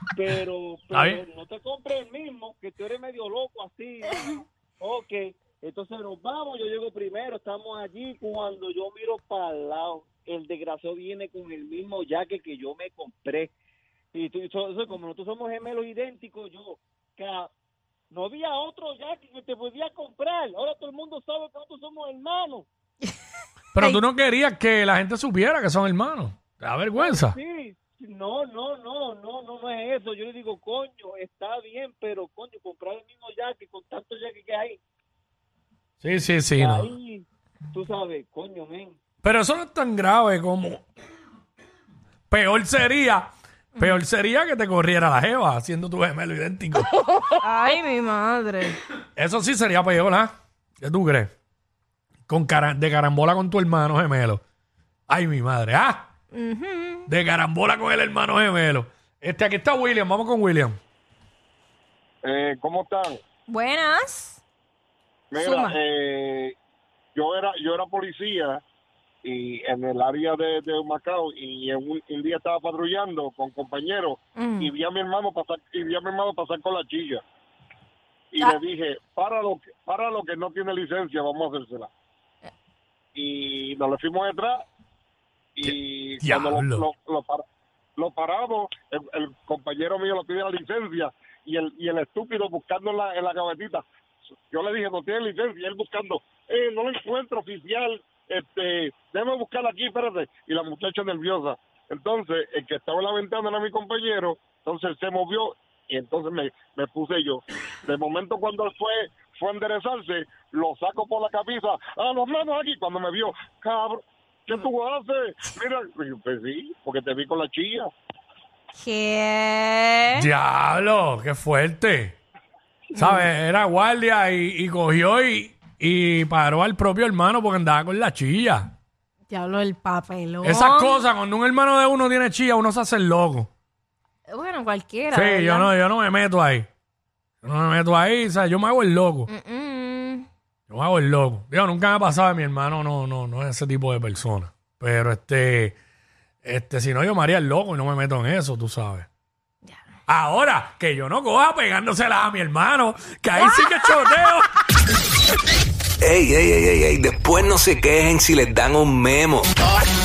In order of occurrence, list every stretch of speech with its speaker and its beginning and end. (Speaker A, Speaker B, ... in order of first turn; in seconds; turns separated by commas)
Speaker A: 0.1-13.5, Speaker B: 0.9-1.2, Speaker A: 14.1-17.5, Speaker A: 18.1-22.7, Speaker B: 23.7-27.4, Speaker C: 23.8-24.0, Speaker A: 26.9-34.8, Speaker B: 36.0-36.9, Speaker A: 36.6-39.0, Speaker B: 39.2-40.8, Speaker B: 42.3-46.9, Speaker C: 47.4-48.8, Speaker B: 49.1-51.3, Speaker B: 52.3-54.4, Speaker B: 55.1-56.1, Speaker C: 56.3-57.1, Speaker B: 57.1-60.8, Speaker D: 62.2-63.2, Speaker C: 63.5-64.4, Speaker D: 65.3-66.6, Speaker C: 65.3-65.8, Speaker D: 67.1-68.6, Speaker D: 69.2-77.2, Speaker C: 74.4-74.7, Speaker D: 78.3-81.9, Speaker D: 83.1-84.6, Speaker D: 85.5-87.4, Speaker B: 85.6-86.8, Speaker D: 88.0-93.8, Speaker D: 94.5-117.9, Speaker C: 118.7-120.3, Speaker B: 120.1-122.2, Speaker B: 122.9-128.7, Speaker C: 123.0-123.2, Speaker C: 129.3-131.1, Speaker B: 130.4-133.5, Speaker C: 134.3-135.7, Speaker B: 135.1-136.7, Speaker B: 137.4-139.3, Speaker C: 139.3-140.2, Speaker B: 140.7-145.8, Speaker B: 146.4-149.1, Speaker B: 150.1-154.5, Speaker C: 153.4-154.1, Speaker E: 156.0-159.5